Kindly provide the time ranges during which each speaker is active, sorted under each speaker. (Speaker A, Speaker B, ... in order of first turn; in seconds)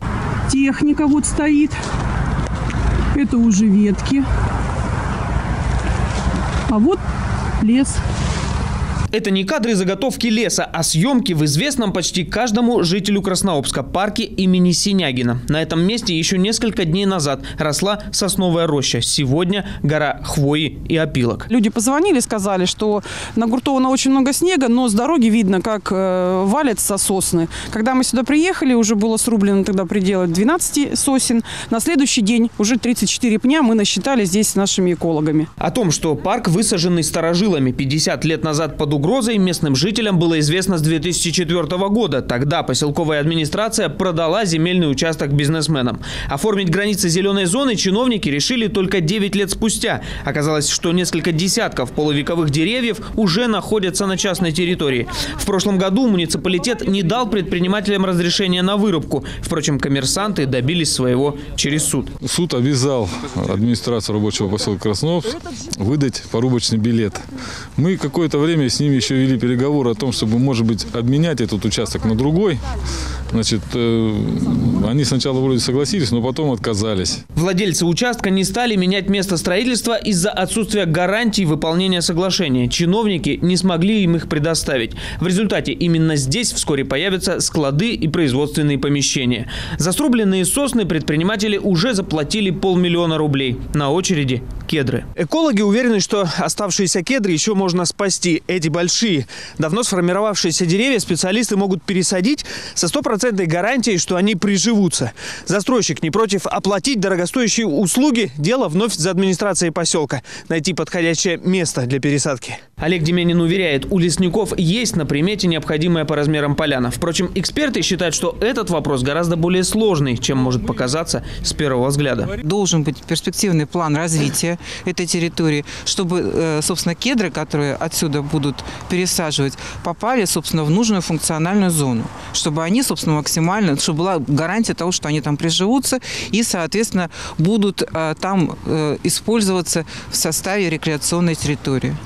Speaker A: 0.5-1.8, 3.1-4.2, 6.7-7.0, 7.6-8.0, 21.5-35.5
Speaker B: 9.1-21.5, 35.6-62.1, 77.3-122.4
Speaker C: 62.2-72.6, 73.3-77.2
Speaker D: 122.4-142.0